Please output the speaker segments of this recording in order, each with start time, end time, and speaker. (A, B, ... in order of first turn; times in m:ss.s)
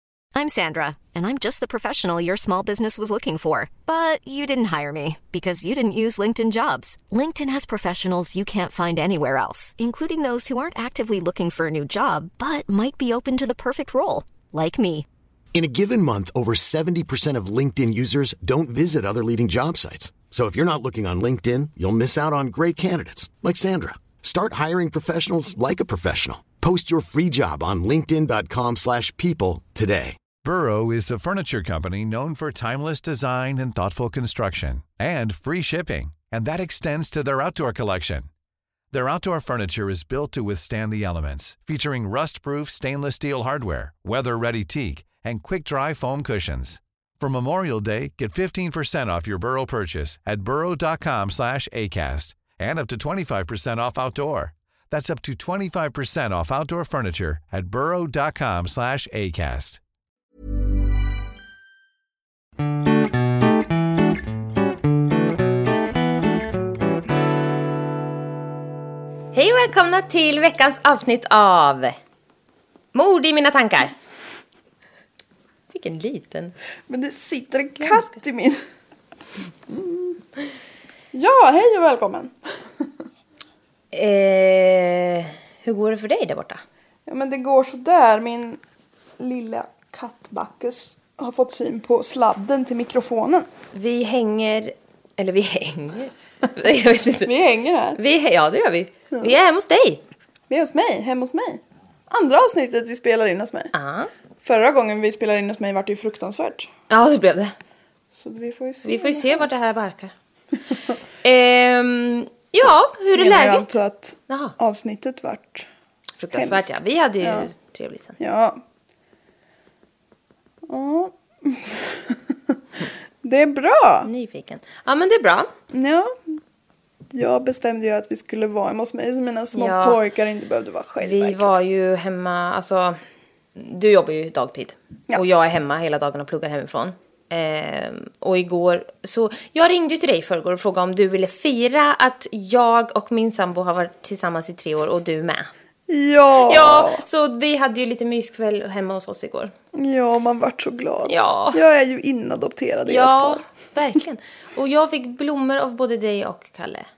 0:00.3-0:15.1 A
0:15.5-0:30.2 B
0:30.4-0:38.3 C
0:38.9-0:59.8 C
1:09.3-1:12.0 D
1:12.9-1:13.9 D
1:15.7-1:16.5 D
1:16.9-1:18.6 E
1:19.7-1:20.2 E
1:21.1-1:22.3 E
1:23.9-1:26.6 D
1:27.1-1:28.6 E
1:29.2-1:33.5 E
1:33.7-1:37.3 D
1:37.2-1:38.0 E
1:38.0-1:40.0 D
1:40.5-1:43.7 E
1:43.7-1:44.1 D
1:44.4-1:46.7 E
1:46.9-1:47.5 D
1:48.2-1:49.5 E
1:48.8-1:50.1 D
1:51.2-1:53.8 D
1:53.1-1:55.7 E
1:54.3-1:54.5 D
1:56.2-1:58.1 D
1:56.3-1:57.5 E
1:58.2-1:58.6 E
2:00.7-2:02.6 E
2:03.2-2:04.1 E
2:04.0-2:05.5 D
2:05.7-2:06.4 E
2:07.1-2:11.5 E
2:09.5-2:10.0 D
2:11.0-2:13.0 D
2:13.6-2:25.5 D
2:25.9-2:27.0 E
2:26.5-2:29.5 D
2:29.7-2:33.4 E
2:31.0-2:31.6 D
2:32.9-2:36.9 D